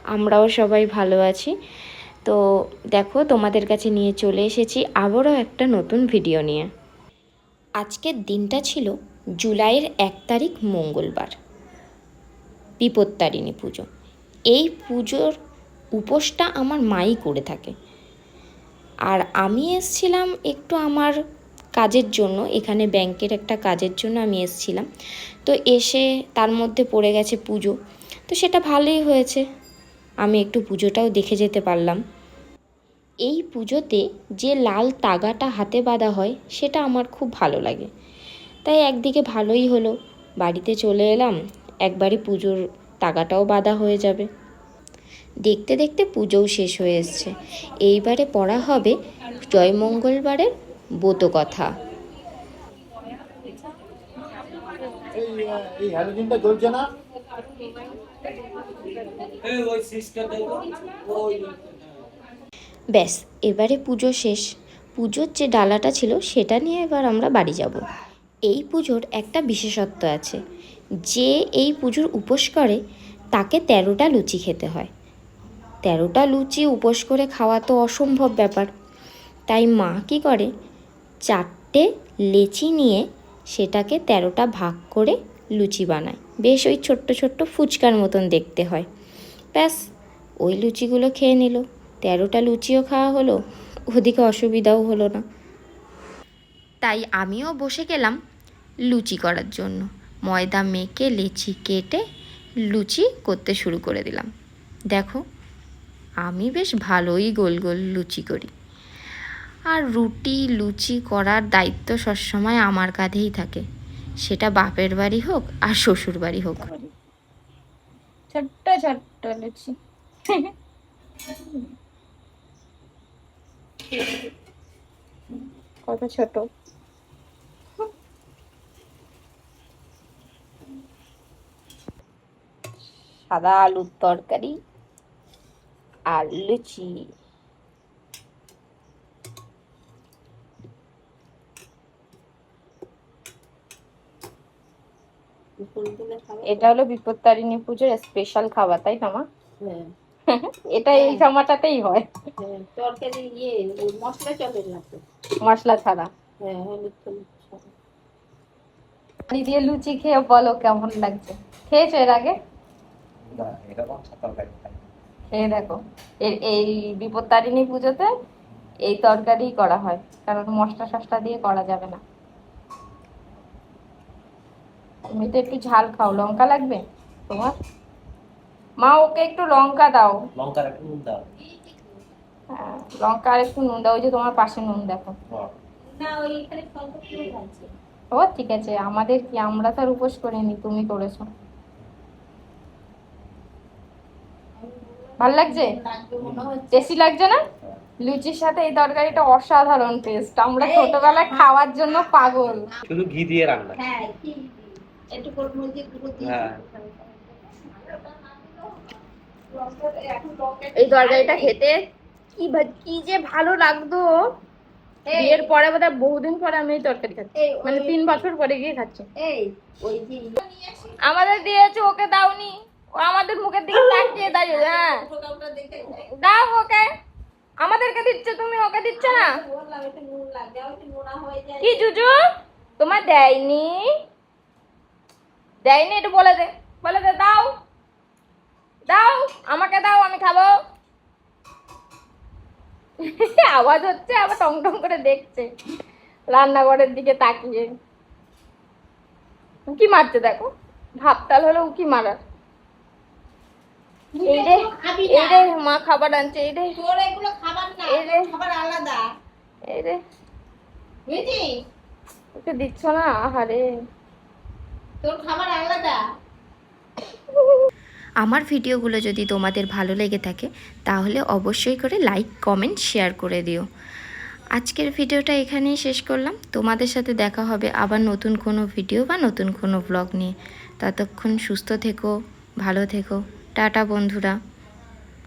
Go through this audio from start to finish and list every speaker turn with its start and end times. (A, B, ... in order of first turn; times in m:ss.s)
0:00.1-0:01.5 A
0:03.0-0:06.7 A
0:07.8-0:11.3 A
0:12.8-0:13.8 A
0:14.5-0:15.3 A
0:16.0-0:17.7 A
0:19.1-0:21.2 A
0:21.8-0:24.9 A
0:25.5-0:27.7 A
0:28.3-0:29.4 A
0:30.2-0:32.0 A
0:33.3-0:37.9 A
0:38.6-0:44.3 A
0:45.5-0:47.3 A
0:47.8-0:49.0 A
0:49.5-0:50.5 A
0:51.0-0:51.7 A
0:59.6-1:00.6 B
1:03.0-1:04.4 A
1:05.0-1:07.8 A
1:08.5-1:10.4 A
1:11.1-1:12.8 A
1:13.4-1:14.9 A
1:15.9-1:18.7 A
1:19.5-1:20.5 A
1:21.3-1:28.9 A
1:30.5-1:33.4 A
1:33.9-1:35.2 A
1:36.8-1:38.2 A
1:38.9-1:42.0 A
1:42.7-1:44.3 A
1:44.9-1:45.2 A
1:46.2-1:48.5 A
1:49.7-1:53.6 A
1:54.2-1:56.7 A
1:58.3-1:59.8 C
2:01.3-2:01.7 C
2:05.9-2:06.5 C
2:13.3-2:14.6 C
2:16.1-2:16.9 C
2:25.6-2:26.7 D
2:26.5-2:29.2 C
2:29.6-2:29.9 D
2:30.3-2:32.1 C
2:30.9-2:31.3 D
2:32.4-2:35.0 D
2:35.4-2:36.1 C
2:36.4-2:37.6 D
2:39.3-2:42.4 C
2:43.3-2:44.8 B
2:45.3-2:48.1 C
2:48.9-2:52.0 C
2:55.1-2:57.6 C
2:58.8-3:00.2 C
3:00.4-3:01.2 B
3:01.5-3:01.9 D
3:02.5-3:05.2 C
3:05.9-3:07.7 D
3:08.1-3:11.3 C
3:14.6-3:16.9 D
3:15.2-3:15.7 C
3:16.2-3:16.5 B
3:16.7-3:17.4 C
3:18.0-3:22.7 C
3:20.6-3:21.4 D
3:22.9-3:23.8 B
3:23.7-3:29.0 D
3:26.2-3:26.6 B
3:29.5-3:31.6 D
3:30.8-3:31.8 C
3:32.4-3:33.1 D
3:33.1-3:34.1 C
3:35.1-3:35.5 D
3:35.1-3:39.1 C
3:37.4-3:38.2 D
3:39.2-3:41.3 D
3:41.0-3:44.9 C
3:43.7-3:46.0 D
3:46.2-3:46.9 C
3:47.6-3:49.3 C
3:49.0-3:52.0 D
3:51.6-3:52.2 C
3:52.8-3:53.8 C
3:55.6-3:57.5 C
3:58.9-4:00.6 C
4:03.0-4:05.5 C
4:06.3-4:07.7 C
4:09.7-4:10.5 C
4:11.0-4:12.2 C
4:14.2-4:15.5 D
4:14.3-4:16.7 C
4:16.8-4:19.0 D
4:17.9-4:18.3 C
4:19.7-4:20.0 C
4:21.1-4:21.5 D
4:22.4-4:23.7 C
4:25.0-4:26.0 D
4:27.3-4:27.7 C
4:28.2-4:33.7 A
4:34.6-4:42.1 A
4:42.6-4:44.4 A